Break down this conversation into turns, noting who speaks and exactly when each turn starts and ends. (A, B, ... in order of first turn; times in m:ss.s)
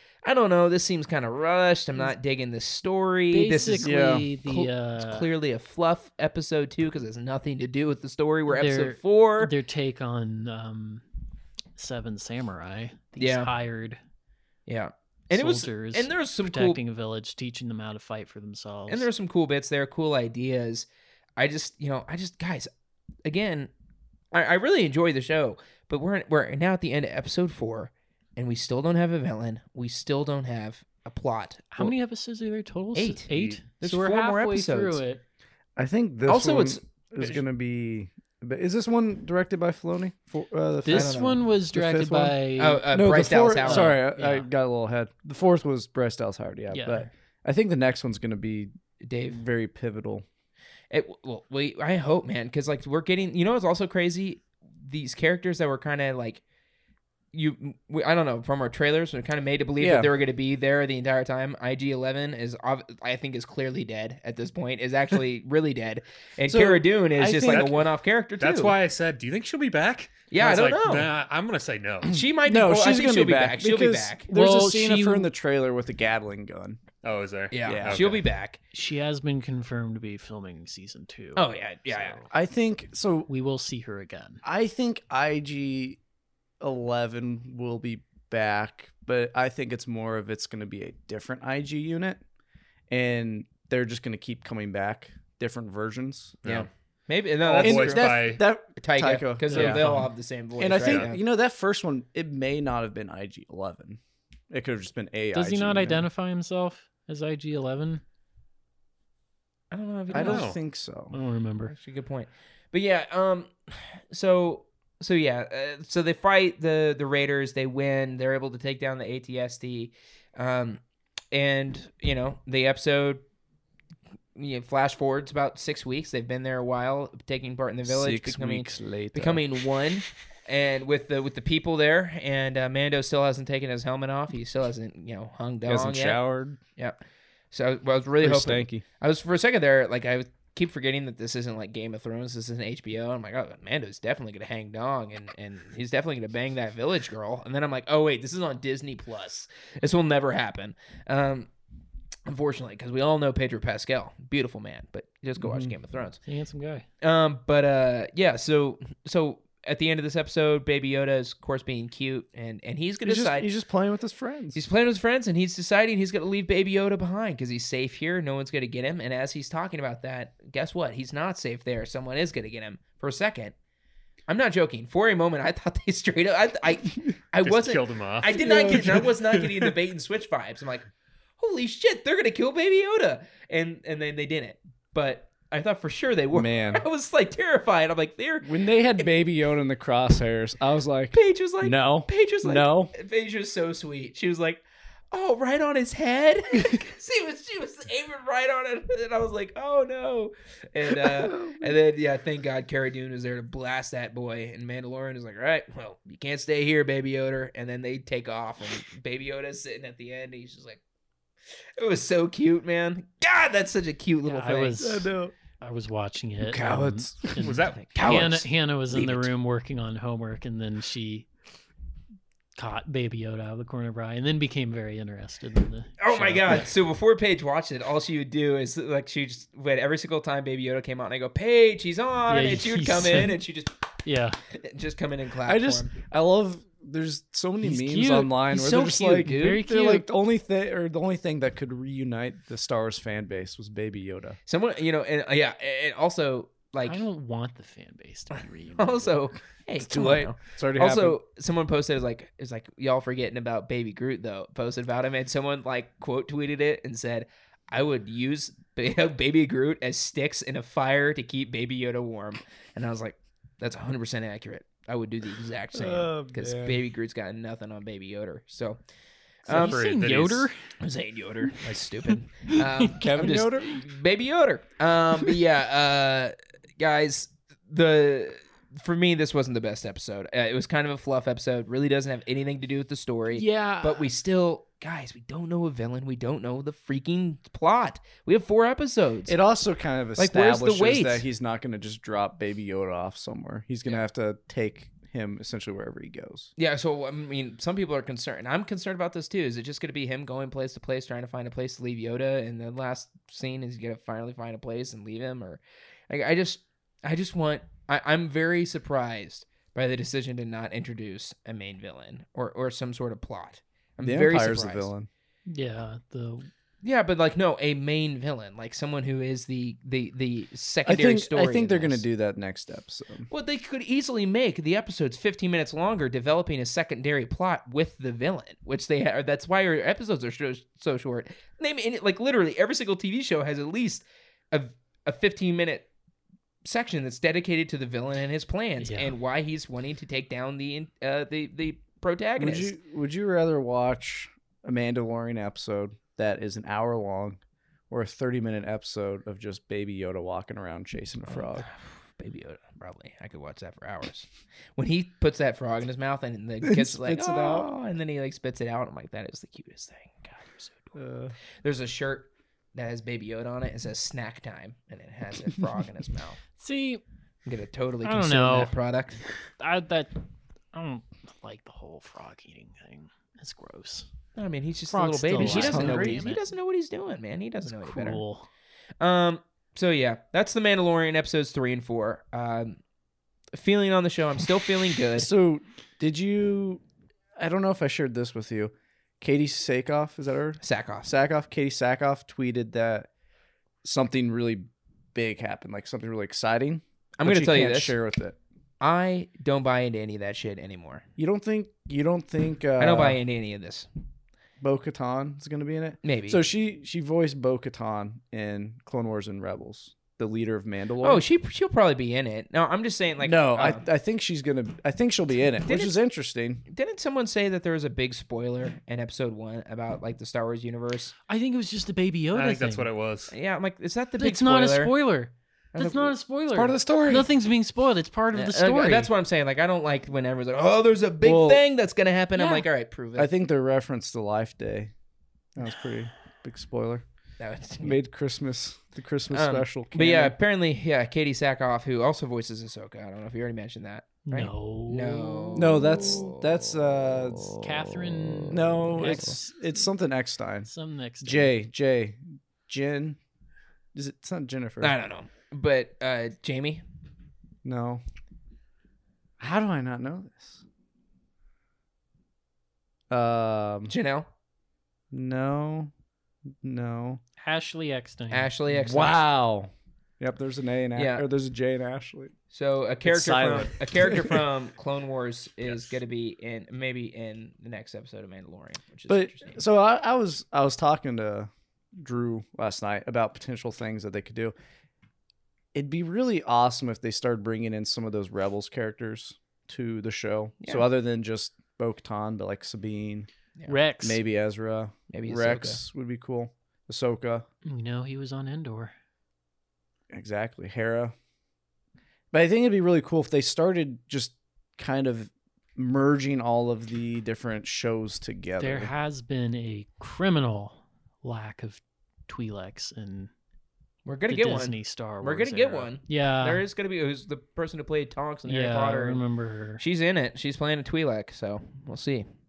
0:00.2-0:09.5 A
0:03.3-0:05.3 B
0:03.8-0:04.3 C
0:08.5-0:11.0 B
0:11.8-0:14.0 B
0:13.2-0:13.5 A
0:14.7-0:16.8 A
0:15.3-0:19.1 B
0:18.9-0:22.7 A
0:23.2-0:23.7 A
0:24.3-0:31.9 A
0:31.7-0:35.2 B
0:32.9-0:35.0 A
0:33.3-0:33.6 D
0:35.8-0:42.4 C
0:36.3-0:37.4 A
0:40.8-0:42.9 B
0:40.9-0:41.4 A
0:42.6-0:43.9 A
0:42.9-0:48.7 C
0:43.6-0:44.5 B
0:46.7-0:47.1 B
0:49.0-0:49.4 A
0:49.3-0:50.2 C
0:50.9-0:56.4 A
0:57.3-1:08.7 A
0:59.8-1:00.1 C
1:06.5-1:07.7 C
1:07.4-1:12.2 D
1:10.3-1:11.1 A
1:12.0-1:14.2 A
1:12.4-1:16.8 C
1:14.3-1:15.3 B
1:17.0-1:18.2 D
1:17.5-1:18.6 A
1:17.6-1:18.0 C
1:18.7-1:22.3 B
1:21.3-1:22.2 A
1:22.3-1:23.3 C
1:23.3-1:24.4 B
1:24.4-1:26.0 C
1:26.6-1:32.2 C
1:32.9-1:36.4 C
1:36.4-1:36.7 D
1:36.4-1:41.2 A
1:37.4-1:38.4 D
1:37.5-1:40.0 C
1:39.5-1:40.1 B
1:40.6-1:46.1 C
1:40.7-1:41.1 D
1:45.3-1:48.0 B
1:49.7-1:50.5 A
1:50.1-1:51.1 C
1:50.2-1:50.6 D
1:51.1-1:51.7 B
1:51.7-2:00.8 A
2:01.3-2:03.2 A
2:04.3-2:16.2 A
2:07.8-2:09.6 C
2:15.6-2:16.6 C
2:17.5-2:31.5 A
2:18.2-2:18.8 C
2:32.3-2:36.2 A
2:35.4-2:35.7 C
2:36.2-2:36.8 B
2:37.0-2:43.5 A
2:43.0-2:44.6 C
2:44.5-2:53.5 A
2:54.3-3:00.9 A
2:57.4-2:59.6 D
2:58.4-2:59.1 C
3:01.4-3:09.0 A
3:06.3-3:06.8 C
3:08.4-3:12.9 C
3:11.1-3:30.8 A
3:20.9-3:21.7 C
3:31.8-3:34.9 A
3:34.2-3:41.3 B
3:34.8-3:35.3 C
3:36.4-3:37.4 C
3:37.4-3:37.9 D
3:37.8-3:39.3 A
3:42.5-3:46.7 B
3:46.0-3:53.8 A
3:52.3-3:53.4 B
3:54.0-3:54.4 B
3:54.5-3:55.9 A
3:55.4-4:04.4 C
3:57.6-4:00.1 B
3:58.5-3:59.5 A
4:04.5-4:07.0 A
4:06.8-4:09.2 B
4:08.8-4:28.8 A
4:09.8-4:11.2 C
4:25.7-4:26.8 C
4:29.4-4:29.8 A
4:29.5-4:30.6 B
4:29.5-4:30.5 D
4:30.8-4:49.3 A
4:32.9-4:33.8 C
4:43.3-4:44.1 B
4:49.3-4:56.5 C
4:50.2-4:51.2 A
4:56.6-5:14.9 A
5:14.0-5:15.1 C
5:15.5-5:16.5 B
5:16.8-5:22.0 A
5:20.8-5:23.3 C
5:23.3-5:35.9 A
5:36.6-5:42.7 A
5:38.8-5:39.1 B
5:42.4-5:51.7 C
5:51.3-6:01.0 A
5:56.6-5:57.7 C
6:00.9-6:01.3 C
6:01.6-6:06.4 A
6:06.6-6:07.0 B
6:07.4-6:09.2 A
6:08.0-6:08.7 B
6:09.6-6:10.2 B
6:10.7-6:14.1 B
6:14.4-6:18.2 A
6:14.9-6:16.4 B
6:15.4-6:16.2 C
6:17.7-6:18.5 B
6:19.0-6:22.8 A
6:23.5-6:25.3 A
6:25.1-6:26.8 C
6:27.4-6:33.1 C
6:30.6-6:31.1 A
6:33.8-6:38.4 C
6:37.2-6:37.9 A
6:38.8-6:41.0 A
6:41.2-6:43.2 C
6:42.8-6:43.9 A
6:44.6-6:51.2 C
6:46.0-6:46.4 A
6:51.0-6:53.8 A
6:53.2-6:56.6 C
6:55.6-6:56.0 A
6:56.7-7:01.1 A
7:01.3-7:02.9 B
7:02.3-7:03.3 D
7:03.3-7:04.9 A
7:04.2-7:09.1 B
7:05.7-7:06.1 A
7:06.5-7:07.3 C
7:08.3-7:13.3 A
7:11.2-7:11.6 C
7:12.3-7:12.7 B
7:13.2-7:14.9 C
7:15.5-7:17.0 C
7:17.4-7:18.0 A
7:17.8-7:20.4 C
7:19.3-7:26.5 A
7:24.2-7:25.6 B
7:25.5-7:27.6 C
7:27.6-7:29.9 B
7:28.5-7:30.7 C
7:30.6-7:31.5 B
7:31.2-7:33.2 C
7:33.9-7:34.9 C
7:34.8-7:36.8 A
7:37.6-7:38.0 C
7:39.4-7:40.6 C
7:43.1-7:43.9 C
7:43.9-7:44.3 A
7:45.1-7:45.9 C
7:46.6-7:47.2 C
7:47.4-7:48.5 B
7:48.3-7:49.2 A
7:48.7-7:52.3 C
7:50.9-7:51.2 A
7:52.5-7:59.6 A
7:53.0-7:54.4 C
7:55.6-7:56.0 D
7:59.1-8:04.5 C
8:05.7-8:13.3 C
8:13.7-8:14.2 B
8:14.0-8:17.4 C
8:15.1-8:15.8 A
8:17.6-8:18.9 B
8:20.1-8:21.1 C
8:22.3-8:28.9 C
8:28.6-8:33.3 B
8:34.0-8:39.2 A
8:34.3-8:36.6 B
8:38.5-8:39.8 B
8:39.8-8:42.3 A